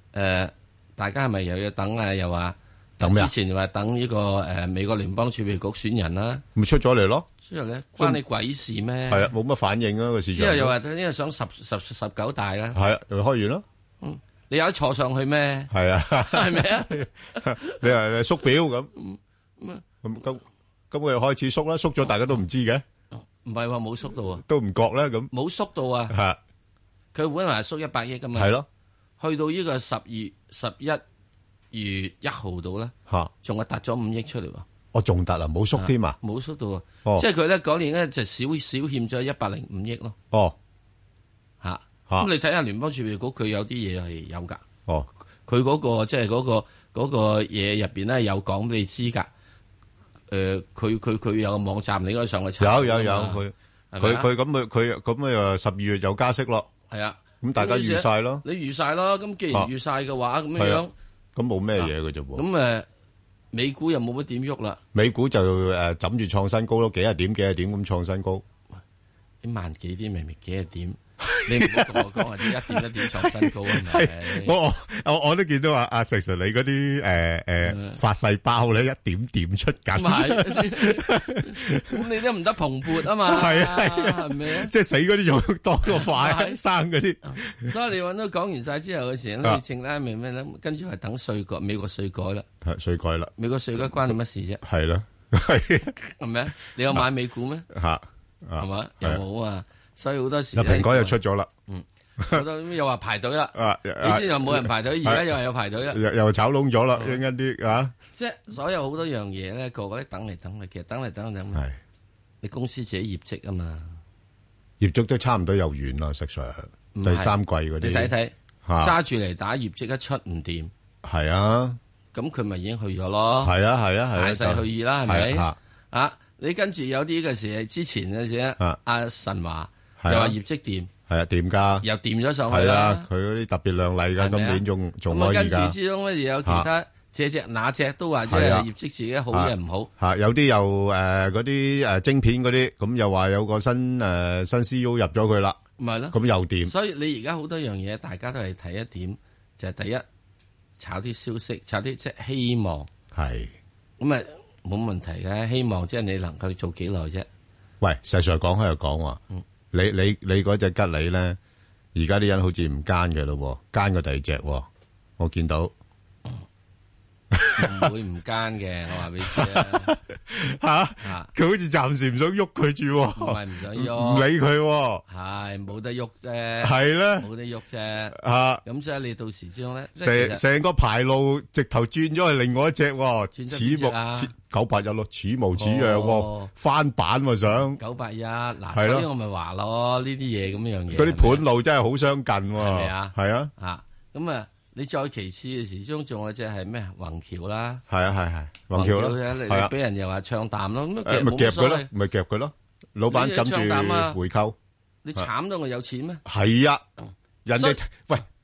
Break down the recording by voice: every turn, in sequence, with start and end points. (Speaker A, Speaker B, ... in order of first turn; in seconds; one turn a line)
Speaker A: 0.1-6.4
Speaker B: 3.0-3.3
Speaker B: 6.5-7.3
Speaker A: 7.4-9.3
Speaker B: 9.1-10.7
Speaker A: 10.3-12.8
Speaker B: 12.7-13.6
Speaker A: 14.0-17.8
Speaker B: 15.7-18.9
Speaker A: 18.9-19.8
Speaker B: 20.0-22.8
Speaker A: 23.4-24.4
Speaker B: 24.4-25.3
Speaker A: 25.3-26.1
Speaker B: 26.1-26.4
Speaker A: 27.1-28.5
Speaker B: 28.3-28.7
Speaker A: 29.2-31.0
Speaker A: 31.7-34.6
Speaker B: 34.9-36.2
Speaker A: 35.7-40.1
Speaker A: 41.6-44.6
Speaker A: 45.5-49.3
Speaker A: 50.3-54.3
Speaker B: 52.6-56.7
Speaker A: 56.9-60.9
Speaker B: 57.4-58.4
Speaker B: 60.5-60.8
Speaker B: 61.4-62.4
Speaker A: 61.8-62.9
Speaker A: 63.5-64.8
Speaker B: 64.9-68.4
Speaker A: 69.4-74.5
Speaker B: 71.2-82.0
Speaker A: 77.6-78.0
Speaker A: 79.9-84.7
Speaker B: 83.0-87.7
Speaker A: 85.8-86.6
Speaker A: 87.3-92.5
Speaker B: 92.6-93.3
Speaker A: 93.4-94.6
Speaker B: 94.6-95.9
Speaker A: 96.0-97.7
Speaker B: 97.7-99.2
Speaker A: 98.6-101.2
Speaker B: 100.5-101.5
Speaker A: 101.7-106.0
Speaker B: 103.5-105.3
Speaker B: 105.9-107.9
Speaker A: 108.1-111.6
Speaker A: 112.4-114.0
Speaker B: 114.8-118.1
Speaker A: 116.9-120.7
Speaker B: 118.6-119.0
Speaker B: 121.0-121.8
Speaker A: 122.1-123.5
Speaker B: 123.4-125.5
Speaker A: 124.1-130.9
Speaker B: 130.0-130.3
Speaker B: 131.1-131.8
Speaker A: 131.8-133.1
Speaker B: 132.5-135.7
Speaker A: 134.2-139.9
Speaker B: 138.3-138.7
Speaker B: 139.3-145.6
Speaker A: 145.8-150.0
Speaker B: 146.1-146.7
Speaker A: 150.8-152.9
Speaker B: 153.1-153.5
Speaker A: 154.0-157.3
Speaker B: 157.8-159.2
Speaker B: 159.7-161.4
Speaker B: 161.9-164.7
Speaker B: 165.2-165.7
Speaker B: 167.3-167.9
Speaker A: 167.5-169.9
Speaker B: 169.2-175.0
Speaker A: 171.0-171.3
Speaker A: 173.2-174.3
Speaker A: 175.1-180.4
Speaker B: 176.6-177.3
Speaker B: 178.1-178.6
Speaker B: 180.0-187.8
Speaker A: 183.3-184.3
Speaker A: 185.6-186.5
Speaker A: 187.8-191.5
Speaker B: 188.7-189.1
Speaker B: 190.9-193.5
Speaker A: 192.6-197.8
Speaker B: 197.9-199.7
Speaker A: 198.7-201.9
Speaker B: 201.0-204.6
Speaker A: 203.1-204.2
Speaker A: 205.0-206.2
Speaker B: 206.2-206.8
Speaker B: 207.4-208.2